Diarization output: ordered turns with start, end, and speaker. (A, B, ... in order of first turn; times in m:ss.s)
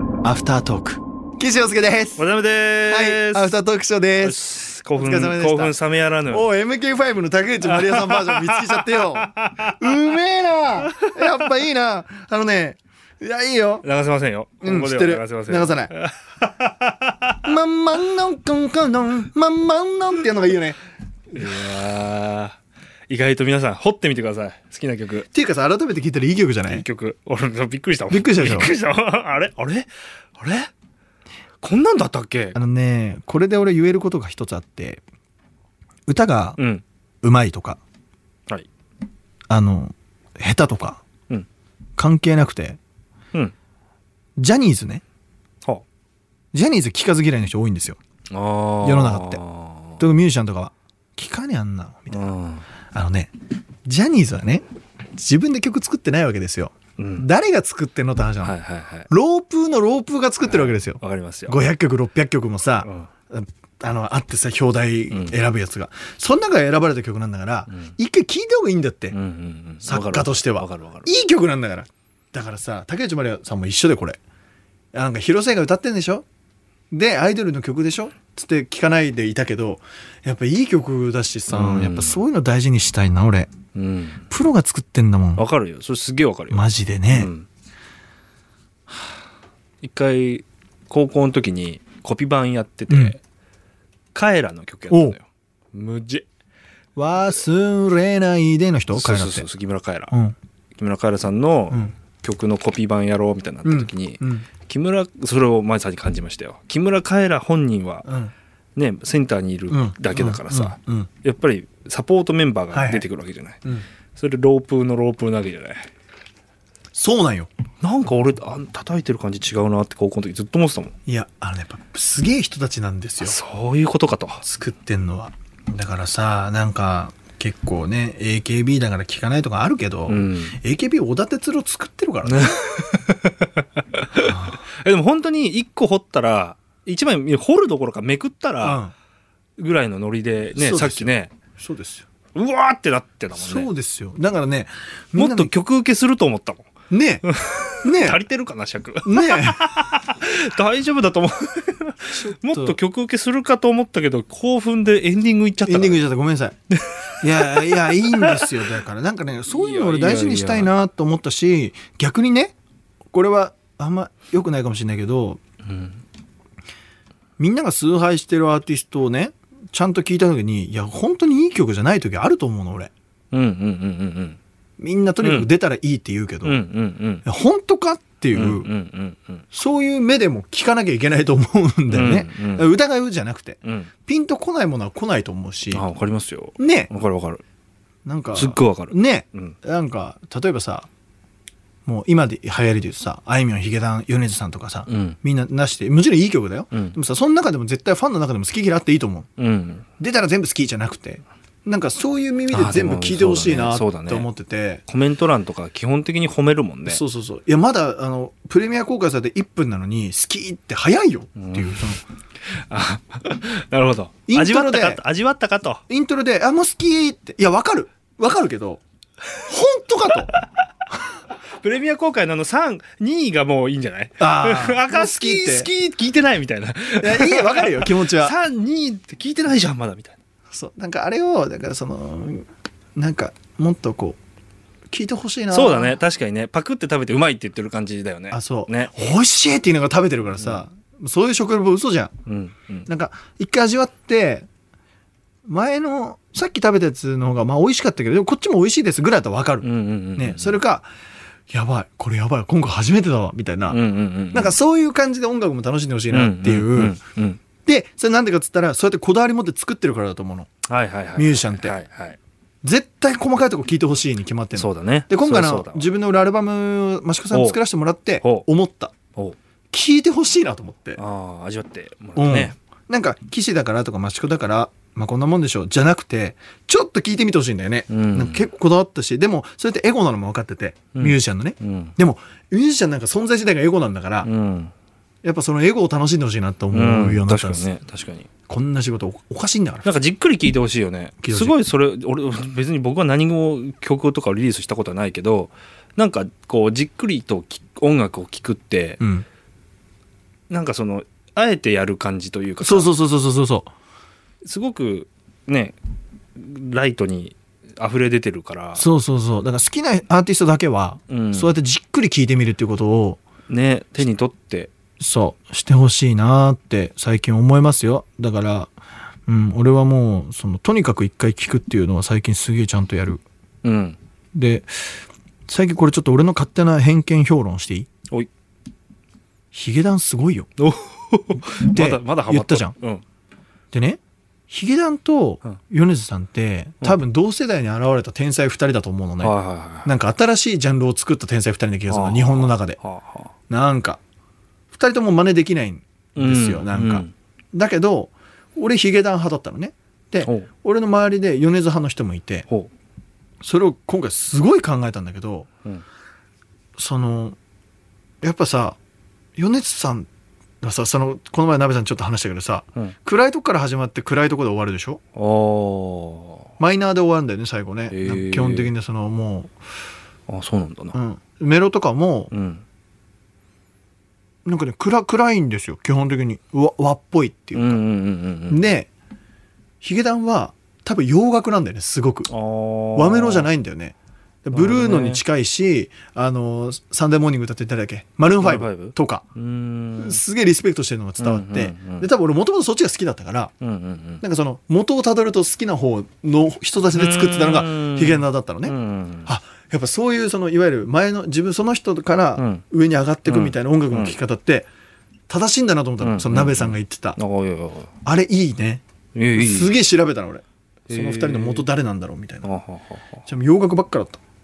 0:00.2-0:02.3 A
0:02.2-0:03.6 B
0:02.8-0:05.8 A
0:04.2-0:06.5 B
0:06.3-0:13.8 A
0:07.7-0:09.9 B
0:11.0-0:11.4 B
0:13.8-0:17.4 B
0:14.6-0:15.9 A
0:17.4-0:20.8 A
0:21.3-0:22.6 B
0:23.1-0:25.3 B
0:25.3-0:26.9 A
0:26.7-0:30.7 B
0:28.1-0:28.7 A
0:31.6-0:32.6 B
0:32.6-0:35.0 A
0:36.1-0:36.6 A
0:36.6-0:36.8 B
0:37.2-0:37.8 A
0:39.5-0:41.0 A
0:42.0-0:42.8 A
0:44.4-0:45.0 A
0:46.5-0:48.0 A
0:48.3-0:50.0 B
0:48.8-0:49.4 A
0:50.0-0:52.3 A
0:52.1-0:52.7 B
0:52.9-0:53.3 A
0:53.9-0:54.6 A
0:55.2-0:58.6 A
0:57.0-0:57.3 B
0:58.4-0:59.1 B
0:59.1-1:09.2 A
1:00.5-1:01.6 B
1:02.8-1:03.1 B
1:09.1-1:11.1 B
1:09.8-1:14.2 A
1:14.9-1:16.2 A
1:16.9-1:23.5 A
1:21.5-1:22.2 B
1:23.8-1:24.2 B
1:24.3-1:25.4 A
1:25.4-1:27.5 B
1:26.5-1:27.3 A
1:29.8-1:33.2 B
1:32.9-1:33.2 A
1:34.1-1:36.2 B
1:34.9-1:35.2 A
1:37.0-1:39.5 A
1:38.9-1:40.1 B
1:40.8-1:48.1 B
1:43.6-1:44.5 A
1:48.0-1:48.3 A
1:48.8-1:53.6 B
1:49.7-1:51.1 A
1:52.7-1:53.1 A
1:54.2-1:55.9 B
1:56.9-1:57.5 A
1:57.8-2:00.9 B
2:01.1-2:03.4 A
2:03.2-2:04.4 B
2:04.4-2:12.6 A
2:10.1-2:10.6 B
2:12.2-2:18.8 B
2:14.3-2:14.6 A
2:18.6-2:18.9 A
2:19.6-2:21.3 B
2:20.6-2:22.0 A
2:22.4-2:23.7 B
2:23.3-2:25.5 A
2:25.2-2:26.7 B
2:26.9-2:27.2 A
2:27.2-2:36.1 B
2:27.8-2:28.2 A
2:29.0-2:29.7 A
2:32.1-2:32.8 A
2:35.6-2:36.6 A
2:36.7-2:38.5 B
2:37.2-2:42.5 A
2:39.5-2:40.7 B
2:43.1-2:45.4 A
2:45.6-2:46.0 B
2:47.4-2:52.9 A
2:53.3-2:54.4 B
2:54.8-2:56.6 A
2:55.2-2:55.5 B
2:56.4-2:57.2 B
2:57.2-2:58.7 A
2:58.3-2:59.4 B
2:59.5-3:05.8 A
3:01.9-3:02.7 B
3:03.6-3:03.9 B
3:05.7-3:07.4 B
3:06.6-3:06.9 A
3:08.0-3:10.9 A
3:08.4-3:09.6 B
3:11.9-3:19.3 A
3:14.9-3:15.2 B
3:16.7-3:17.0 B
3:19.4-3:19.9 B
3:20.0-3:24.8 A
3:22.5-3:24.3 B
3:24.9-3:27.0 B
3:26.8-3:32.0 A
3:31.4-3:32.0 B
3:32.5-3:35.8 B
3:34.3-3:35.0 A
3:35.9-3:38.8 A
3:39.4-3:40.3 A
3:41.6-3:50.2 B
3:44.2-3:45.7 A
3:47.0-3:48.4 A
3:50.5-3:54.2 A
3:54.9-3:56.0 A
3:55.5-3:58.9 B
3:58.3-4:02.1 A
4:02.3-4:02.9 B
4:02.9-4:04.5 A
4:05.5-4:10.9 A
4:09.6-4:10.6 B
4:11.5-4:13.8 A
4:13.7-4:14.6 B
4:14.3-4:17.0 A
4:16.1-4:17.4 B
4:17.6-4:20.5 A
4:20.6-4:22.2 B
4:21.2-4:21.8 A
4:22.6-4:28.9 A
4:24.5-4:25.9 B
4:27.3-4:27.6 B
4:28.2-4:28.5 B
4:29.7-4:31.0 A
4:31.0-4:32.6 B
4:32.2-4:44.3 A
4:37.9-4:38.5 B
4:40.9-4:42.0 B
4:44.2-4:44.7 B
4:45.2-4:47.7 A
4:46.7-4:48.3 B
4:48.5-4:49.9 A
4:49.8-4:59.0 B
4:51.2-4:51.6 A
4:59.0-4:59.2 A
5:00.5-5:02.9 B
5:02.6-5:03.7 A
5:04.4-5:05.8 B
5:06.4-5:08.9 B
5:08.8-5:13.2 A
5:11.1-5:11.5 B
5:13.5-5:14.7 B
5:15.0-5:18.7 A
5:19.3-5:23.2 A
5:23.6-5:24.0 B
5:24.3-5:27.9 A
5:29.5-5:30.5 A
5:30.6-5:33.0 B
5:31.5-5:32.8 A
5:33.7-5:39.3 A
5:39.2-5:39.9 B
5:39.8-5:42.8 A
5:41.9-5:43.3 B
5:43.5-5:44.0 A
5:44.7-5:52.5 A
5:46.2-5:47.1 B
5:53.4-5:55.5 A
5:56.8-5:57.4 A
5:58.2-5:58.8 A
5:59.4-6:00.1 A
6:00.6-6:05.0 A
6:05.2-6:06.5 B
6:06.6-6:09.5 A
6:07.9-6:08.7 B
6:10.3-6:11.0 B
6:10.9-6:12.3 A
6:12.3-6:12.6 B
6:14.4-6:17.8 A
6:17.6-6:18.7 B
6:18.5-6:18.9 A
6:19.8-6:22.3 A
6:22.3-6:23.5 B
6:23.0-6:29.3 A
6:24.5-6:25.2 B
6:28.4-6:30.2 B
6:30.0-6:33.5 A
6:31.2-6:32.1 B
6:33.6-6:34.2 B
6:34.2-6:44.7 A
6:36.9-6:39.3 B
6:42.4-6:42.6 B
6:43.3-6:44.2 B
6:45.3-6:47.2 A
6:46.0-6:47.9 B
6:48.0-6:48.8 A
6:49.2-6:49.8 B
6:49.4-6:52.5 A
6:50.9-6:51.7 B
6:52.4-6:53.2 B
6:53.3-6:54.2 A